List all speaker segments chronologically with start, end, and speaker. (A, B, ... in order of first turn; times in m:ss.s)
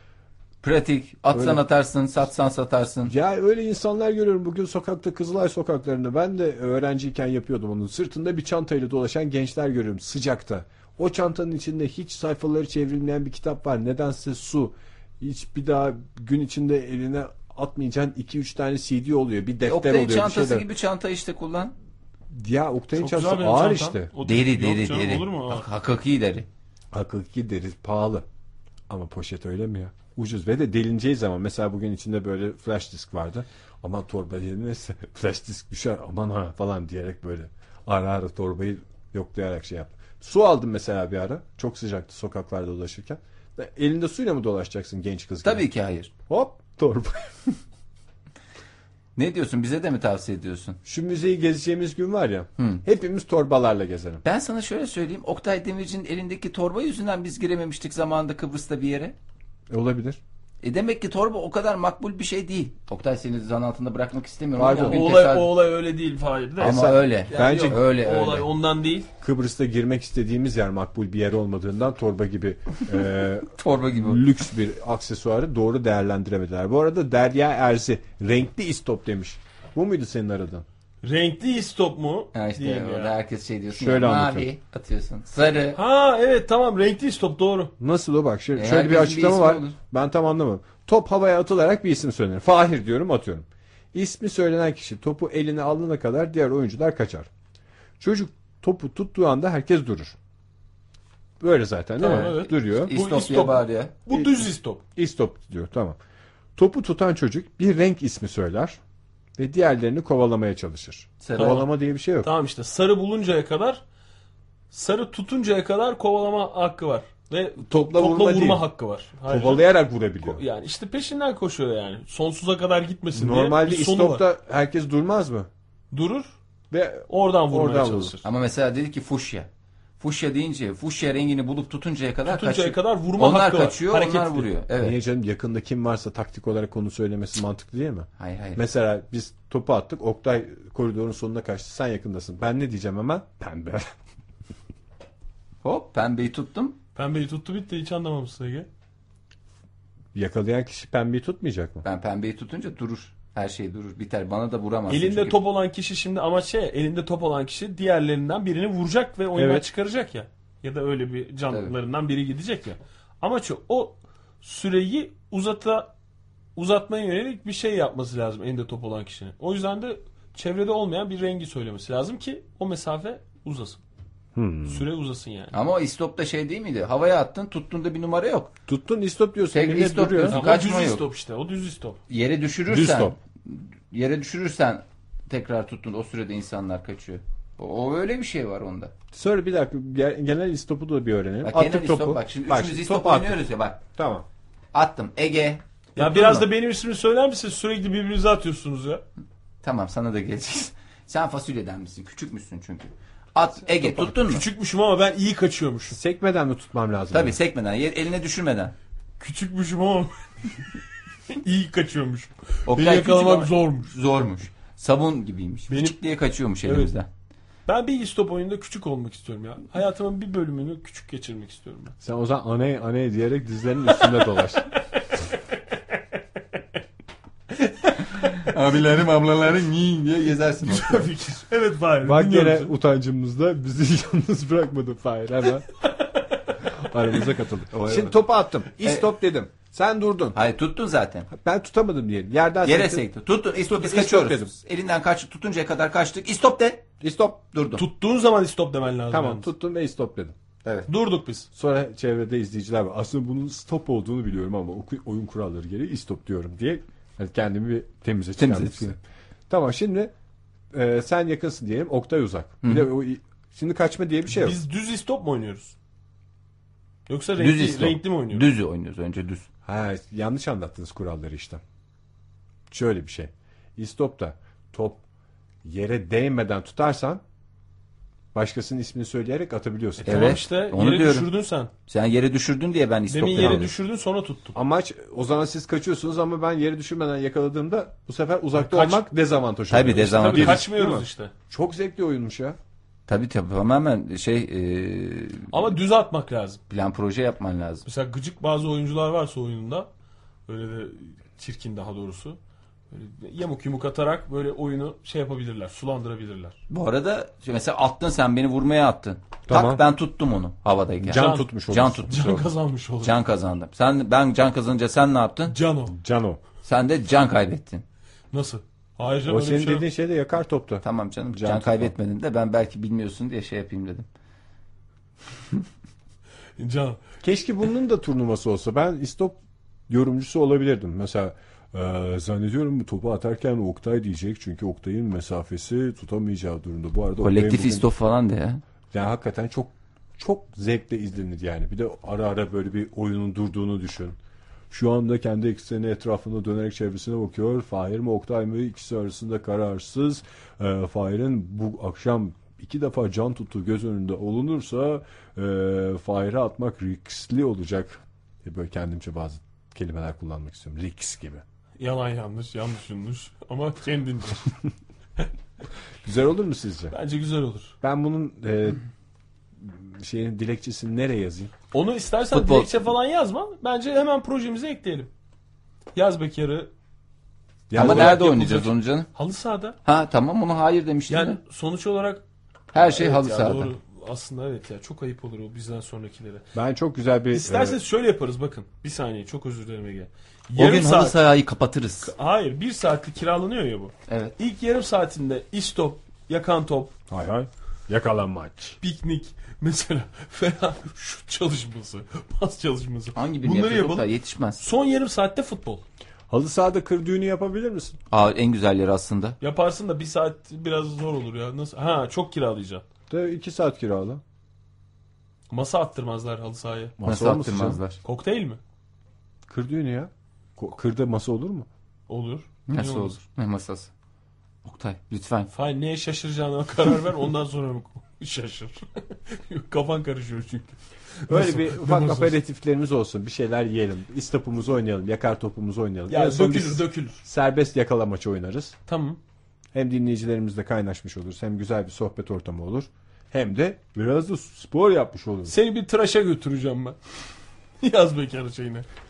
0:00.6-0:03.1 A
0:01.3-0:01.6 B
0:03.0-0:20.6 B
0:19.6-0:21.7 A
0:22.3-0:24.1 B
0:23.0-0:25.7 C
0:24.2-0:26.5 A
0:26.9-0:28.2 B
0:28.9-0:45.7 B
0:45.4-0:46.1 A
0:46.3-0:47.3 B
0:49.2-0:50.8 A
0:50.8-0:54.2 B
0:52.6-0:52.8 A
0:54.2-0:59.1 A
0:59.7-1:00.2 B
1:00.6-1:05.5 A
1:04.6-1:05.0 B
1:04.9-1:09.1 C
1:06.6-1:08.5 A
1:06.6-1:07.8 B
1:09.2-1:20.6 B
1:13.5-1:14.2 A
1:21.0-1:23.1 C
1:22.3-1:25.8 A
1:23.7-1:24.5 B
1:25.7-1:27.7 C
1:27.8-1:37.3 B
1:28.5-1:29.8 A
1:38.0-1:40.2 B
1:41.4-1:42.9 B
1:42.0-1:44.8 C
1:42.0-1:43.9 A
1:44.9-1:46.0 B
1:46.6-1:48.8 B
1:49.4-1:52.3 B
1:51.2-1:51.6 A
1:51.4-1:51.7 C
1:52.2-1:53.8 C
1:54.7-1:59.7 C
1:57.7-1:58.6 B
1:59.3-2:00.4 B
2:00.2-2:04.2 C
2:03.1-2:05.5 B
2:05.9-2:06.3 C
2:06.7-2:08.2 B
2:07.1-2:08.2 C
2:08.2-2:09.5 A
2:10.0-2:15.0 A
2:12.3-2:14.5 C
2:14.8-2:23.9 B
2:18.2-2:18.6 A
2:25.6-2:26.8 A
2:26.9-2:28.7 C
2:30.1-2:31.8 B
2:31.8-2:35.4 A
2:34.9-2:45.9 C
2:39.3-2:39.6 B
2:41.5-2:41.7 A
2:46.6-2:53.8 C
2:54.4-2:54.8 B
2:54.6-2:55.5 C
2:55.5-2:58.5 A
2:58.7-3:00.4 B
2:59.5-3:01.0 A
3:00.3-3:02.0 C
3:02.1-3:08.9 A
3:02.7-3:03.2 B
3:09.1-3:14.2 B
3:11.4-3:13.8 A
3:14.7-3:16.5 A
3:16.0-3:19.0 C
3:19.6-3:24.4 A
3:23.8-3:25.9 C
3:25.9-3:27.4 B
3:27.1-3:28.7 A
3:29.2-3:30.1 C
3:31.3-3:33.9 C
3:32.7-3:37.1 A
3:35.7-3:36.0 C
3:36.6-3:36.9 C
3:37.7-3:42.0 C
3:42.0-3:44.7 B
3:44.0-3:44.6 C
3:47.6-3:48.4 C
3:48.4-3:51.1 A
3:50.6-3:52.7 C
3:52.0-3:55.7 B
3:56.7-4:00.4 B
3:57.7-3:58.2 A
4:00.3-4:01.3 A
4:01.3-4:03.1 B
4:02.6-4:06.9 A
4:03.6-4:04.5 B
4:07.0-4:07.4 B
4:07.5-4:07.8 A
4:07.8-4:09.5 C
4:09.1-4:10.3 B
4:10.6-4:10.9 A
4:10.9-4:11.5 C
4:11.5-4:20.1 B
4:18.4-4:18.9 A
4:20.7-4:24.6 B
4:22.6-4:22.9 A
4:24.3-4:25.7 C
4:27.1-4:28.5 C
4:27.4-4:29.5 A
4:29.6-4:31.6 B
4:32.7-4:35.0 B
4:35.6-4:37.2 B
4:38.3-4:40.4 B
4:40.0-4:41.7 C
4:40.0-4:41.3 A
4:41.9-4:43.7 A
4:43.1-4:44.6 C
4:43.4-4:43.7 B
4:44.5-4:52.6 B
4:48.5-4:49.1 C
4:49.7-4:50.7 A
4:49.7-4:51.3 C
4:53.1-4:55.6 A
4:55.5-4:56.6 C
4:56.7-4:57.8 A
4:57.8-4:59.9 C
5:00.5-5:02.4 C
5:02.9-5:06.6 C
5:06.7-5:12.5 A
5:09.5-5:09.8 B
5:11.0-5:12.0 B
5:11.1-5:11.5 C
5:12.0-5:13.2 C
5:13.0-5:15.6 A
5:15.5-5:15.9 C
5:15.9-5:16.4 B
5:16.6-5:17.8 A
5:18.3-5:19.9 C
5:19.2-5:21.9 B
5:20.8-5:24.1 A
5:26.6-5:27.0 C
5:27.2-5:29.4 B
5:29.9-5:37.9 B
5:37.2-5:38.6 A
5:38.9-5:44.2 B
5:44.7-6:01.4 B
6:01.8-6:04.5 C
6:06.0-6:06.9 B
6:06.9-6:07.8 C
6:07.8-6:08.8 B
6:09.6-6:11.5 B
6:11.7-6:15.1 C
6:12.3-6:12.7 A
6:15.9-6:16.7 C
6:17.7-6:18.2 B
6:17.7-6:19.1 A
6:17.7-6:19.8 C
6:19.8-6:21.4 A
6:21.1-6:22.2 C
6:22.7-6:23.7 A
6:22.7-6:26.4 C
6:26.5-6:27.8 B
6:27.3-6:31.2 C
6:30.6-6:32.1 A
6:32.0-6:36.9 C
6:34.1-6:34.3 A
6:37.1-6:38.8 B
6:38.8-6:45.8 C
6:43.1-6:44.6 A
6:46.3-6:48.0 B
6:48.1-6:49.4 A
6:49.4-6:52.8 C
6:53.1-6:54.2 B
6:55.5-6:57.0 C
6:57.0-6:57.8 B
6:57.0-6:58.0 A
6:58.0-6:58.6 C
6:59.5-7:01.7 B
7:02.1-7:03.2 C
7:02.7-7:03.9 A
7:04.6-7:05.5 A
7:05.5-7:12.3 C
7:11.3-7:18.7 B
7:16.1-7:17.2 C
7:18.9-7:19.2 C
7:19.7-7:25.5 B
7:25.5-7:27.0 C
7:27.8-7:28.8 C